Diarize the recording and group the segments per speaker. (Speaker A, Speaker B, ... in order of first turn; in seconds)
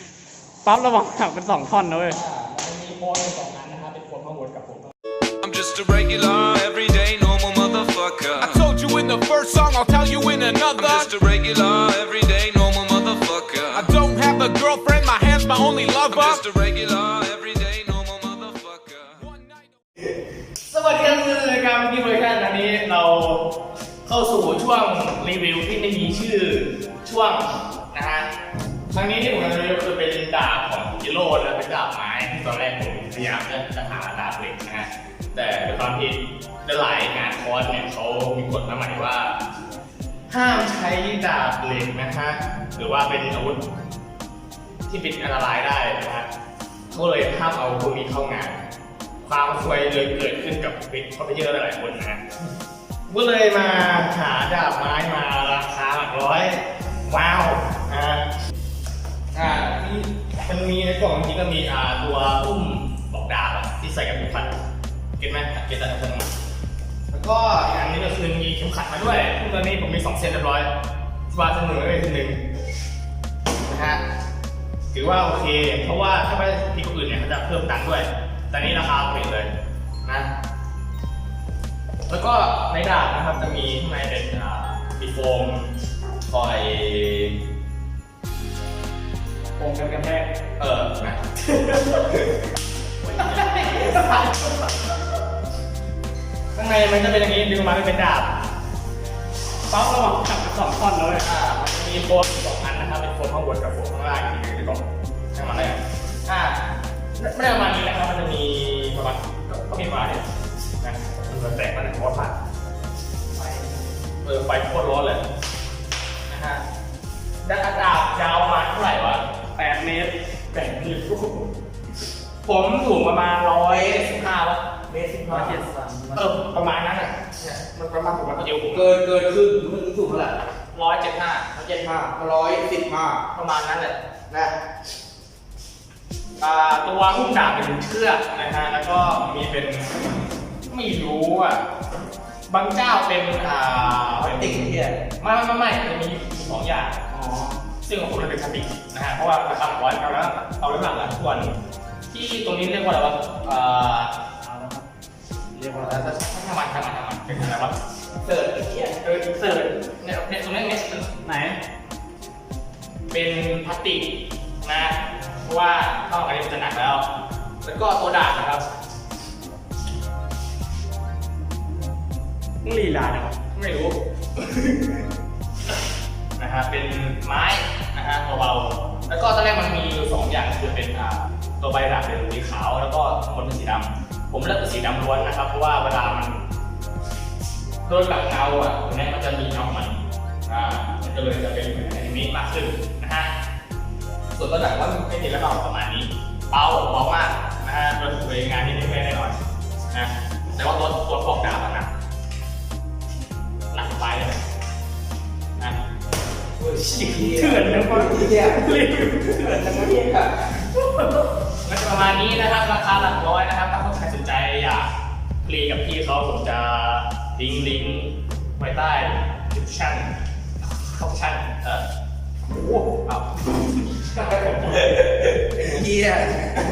Speaker A: 0.6-2.2, 89.6-90.3, 93.6-94.2, 99.7-101.2, 113.4-113.8, 119.6-121.5, 125.3-126.3, 147.1-147.6, 154.4-154.9, 155.5-156.0, 161.2-161.6, 172.6-173.4, 207.2-209.8
Speaker B: 2.1-4.9, 20.7-23.4, 24.1-28.3, 28.9-39.4, 40.3-43.6, 44.9-46.3, 46.9-48.6, 49.2-52.2, 53.1-58.3, 59.3-64.5, 65.2-66.3, 67.1-70.7, 71.3-72.4, 73.7-74.0, 74.9-79.5, 80.0-80.3, 82.1-85.7, 86.3-87.4, 90.6-92.2, 93.1-94.5, 96.5-98.3, 101.2-106.6, 107.2-110.2, 110.8-112.4, 114.2-115.2, 116.3-116.6, 117.4-119.2, 122.4-124.7, 126.1-128.9, 130.7-131.7, 133.3-134.0, 136.4-139.9, 140.7-141.7, 142.5-147.0, 147.8-151.6, 152.1-154.1, 155.7-157.8, 159.0-161.1, 163.1-164.1, 164.6-167.1, 167.6-168.7, 173.5-174.7, 176.4-186.4, 187.9-193.3, 194.3-199.4, 199.9-201.9, 203.7-204.4, 211.6-214.9, 215.4-220.1, 220.7-221.8, 222.5-224.9
Speaker C: 5.4-8.7, 10.8-13.9, 16.1-19.2
Speaker D: 8.4-11.1, 13.7-16.5, 19.1-19.8
Speaker E: 123.7-124.1, 124.9-125.6, 128.7-130.4, 131.6-133.2, 134.3-134.6, 144.2-145.0, 158.2-159.0, 206.6-208.7, 209.2-210.6, 224.5-226.6